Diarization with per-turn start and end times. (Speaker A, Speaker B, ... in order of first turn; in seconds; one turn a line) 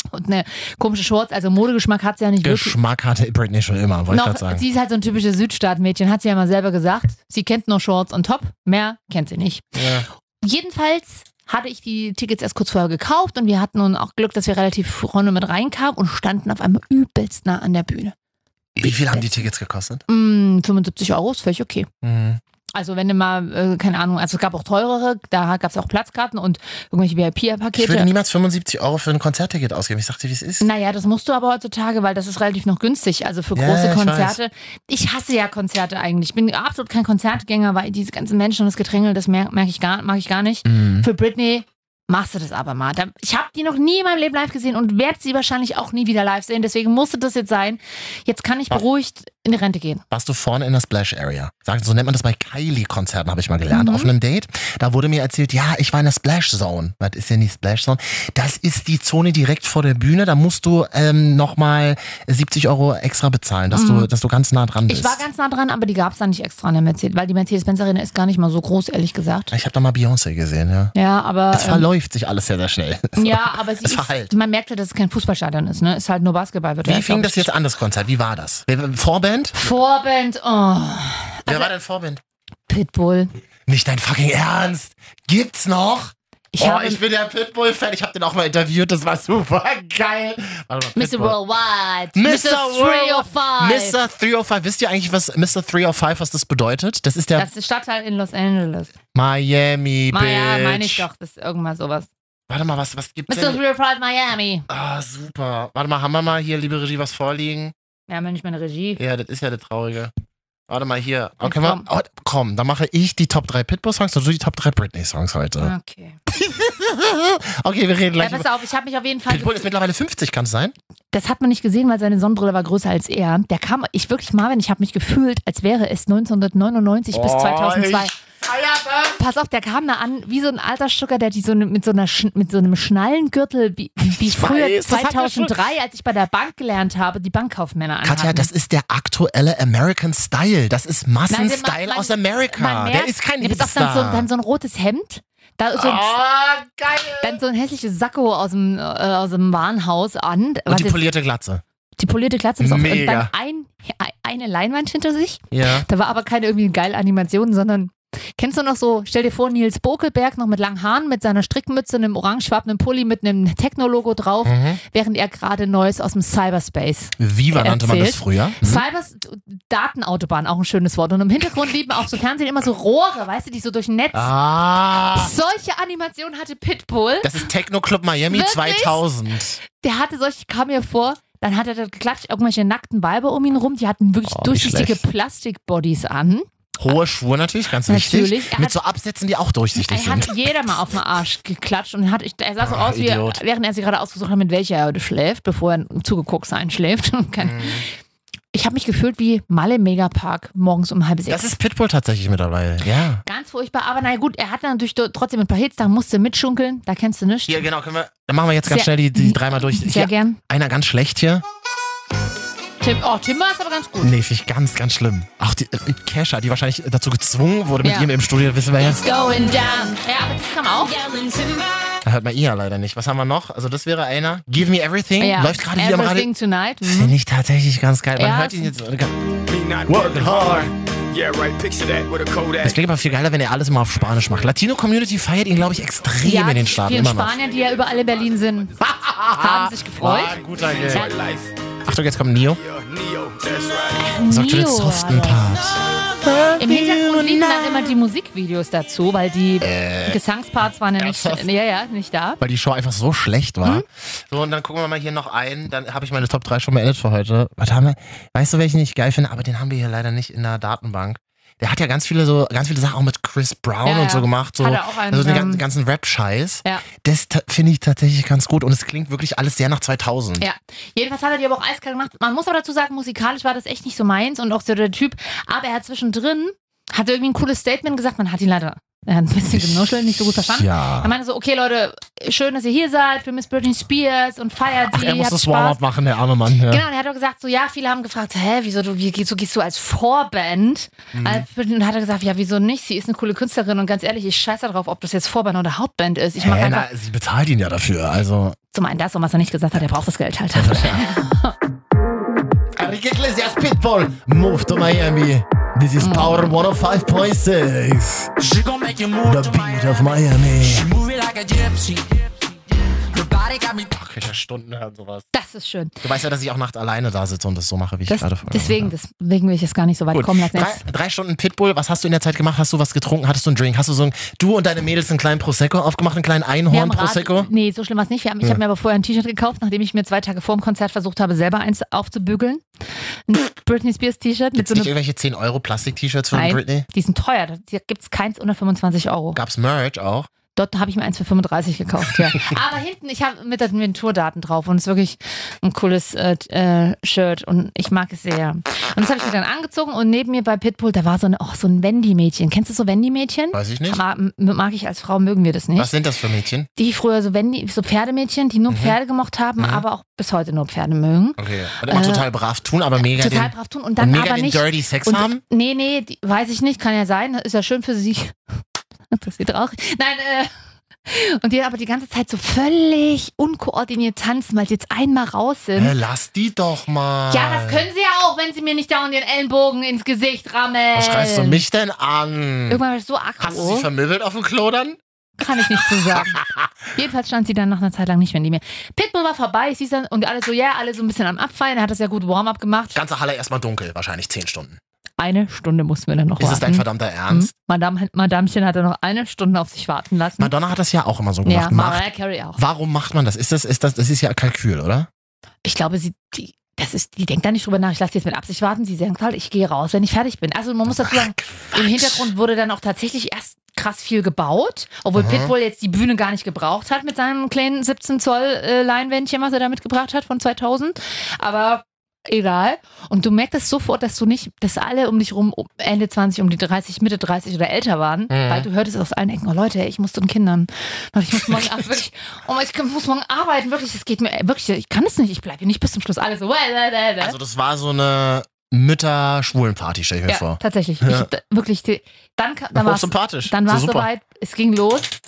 Speaker A: 0.1-2.8
Speaker B: 2.4-4.6
Speaker A: 4.1-9.7
Speaker B: 9.8-10.1
Speaker A: 10.4-18.1
Speaker B: 18.8-20.0
Speaker A: 18.8-19.3
Speaker A: 20.1-21.9
Speaker B: 22.0-22.4
Speaker A: 22.7-28.1
Speaker B: 27.8-30.7
Speaker A: 30.6-50.0
Speaker B: 33.5-34.4
Speaker B: 40.6-41.1
Speaker B: 50.1-65.2
Speaker A: 53.7-54.1
Speaker A: 63.7-64.1
Speaker A: 64.9-69.5
Speaker B: 69.5-70.9
Speaker A: 70.9-71.8
Speaker B: 71.5-74.3
Speaker A: 73.2-77.5
Speaker B: 76.8-79.6
Speaker A: 79.5-81.7
Speaker B: 81.5-82.2
Speaker A: 82.7-83.3
Speaker B: 83.7-91.4
Speaker A: 86.5-87.0
Speaker A: 91.0-94.0
Speaker B: 92.1-97.5
Speaker A: 97.4-98.9
Speaker B: 99.1-101.1
Speaker A: 100.1-102.1
Speaker B: 102.5-103.6
Speaker A: 103.3-104.7
Speaker B: 104.7-107.7
Speaker A: 108.1-109.0
Speaker B: 109.0-110.1
Speaker B: 110.7-115.7
Speaker A: 111.4-111.9
Speaker A: 115.6-116.2
Speaker B: 116.3-118.5
Speaker A: 118.2-119.7
Speaker B: 119.3-120.8
Speaker A: 121.1-128.2
Speaker B: 127.1-129.2
Speaker A: 129.2-138.5
Speaker B: 134.1-135.6
Speaker B: 138.0-144.3
Speaker A: 141.3-146.1
Speaker B: 145.8-147.4
Speaker A: 147.2-151.0
Speaker B: 150.7-151.6
Speaker A: 152.0-174.3
Speaker B: 152.6-153.3
Speaker B: 155.5-155.9
Speaker B: 164.4-164.8
Speaker B: 167.2-168.8
Speaker B: 174.1-175.3
Speaker A: 175.2-177.3
Speaker B: 177.2-179.6
Speaker A: 178.3-179.0
Speaker A: 179.7-186.5
Speaker B: 184.2-185.0
Speaker B: 186.8-190.3
Speaker A: 187.9-188.8
Speaker A: 189.8-197.8
Speaker B: 192.6-193.4
Speaker B: 197.4-197.9
Speaker A: 198.5-201.5
Speaker B: 201.3-203.2
Speaker A: 203.3-207.6
Speaker B: 207.5-211.4
Speaker A: 208.7-210.4
Speaker A: 212.8-214.1
Speaker B: 214.0-219.1
Speaker A: 217.8-218.1
Speaker A: 219.0-221.0
Speaker C: 221.0-221.6
Speaker B: 222.0-226.3
Speaker A: 225.2-227.1
Speaker B: 226.8-229.3
Speaker A: 228.2-228.7
Speaker D: 229.4-232.8
Speaker B: 229.9-230.7
Speaker B: 232.6-237.4
Speaker A: 236.2-238.7
Speaker D: 236.8-238.9
Speaker B: 238.8-241.1
Speaker A: 239.4-240.4
Speaker D: 240.1-241.6
Speaker B: 241.9-242.6
Speaker D: 242.4-244.2
Speaker A: 244.0-245.5
Speaker B: 244.2-247.9
Speaker A: 246.6-252.4
Speaker B: 249.6-250.2
Speaker B: 251.0-251.5
Speaker B: 252.4-270.5
Speaker A: 263.9-265.6
Speaker A: 270.4-285.8
Speaker B: 279.5-281.1
Speaker B: 284.9-286.9
Speaker A: 286.7-296.9
Speaker B: 291.1-291.5
Speaker B: 296.4-298.6
Speaker A: 298.7-301.6
Speaker B: 300.5-301.1
Speaker B: 302.8-308.3
Speaker A: 306.0-306.5
Speaker C: 308.4-312.2
Speaker B: 309.2-310.9
Speaker C: 313.1-313.9
Speaker B: 313.9-315.3
Speaker A: 315.3-315.9
Speaker B: 316.0-318.9
Speaker A: 318.1-320.8
Speaker B: 320.1-327.5
Speaker A: 326.7-332.6
Speaker A: 333.3-334.9
Speaker B: 334.6-336.9
Speaker A: 336.3-339.4
Speaker B: 339.4-340.3
Speaker A: 340.6-355.9
Speaker B: 353.5-354.0
Speaker B: 355.8-356.7
Speaker A: 356.8-362.3
Speaker B: 358.7-359.0
Speaker B: 359.6-359.9
Speaker B: 361.4-365.4
Speaker A: 363.0-368.4
Speaker A: 369.1-370.5
Speaker A: 371.1-375.9
Speaker B: 375.8-377.9
Speaker A: 377.3-381.6
Speaker B: 380.9-382.8
Speaker A: 382.7-383.9
Speaker B: 383.4-385.0
Speaker A: 385.4-386.4
Speaker B: 385.8-386.7
Speaker A: 386.9-393.0
Speaker B: 392.9-394.8
Speaker A: 395.2-400.5
Speaker B: 396.4-397.5
Speaker B: 400.4-405.1
Speaker A: 401.4-402.6
Speaker A: 405.6-437.4
Speaker B: 410.9-412.3
Speaker B: 415.1-415.5
Speaker B: 428.3-428.7
Speaker B: 431.4-431.8
Speaker B: 437.2-441.3
Speaker A: 440.3-445.1
Speaker B: 442.8-444.1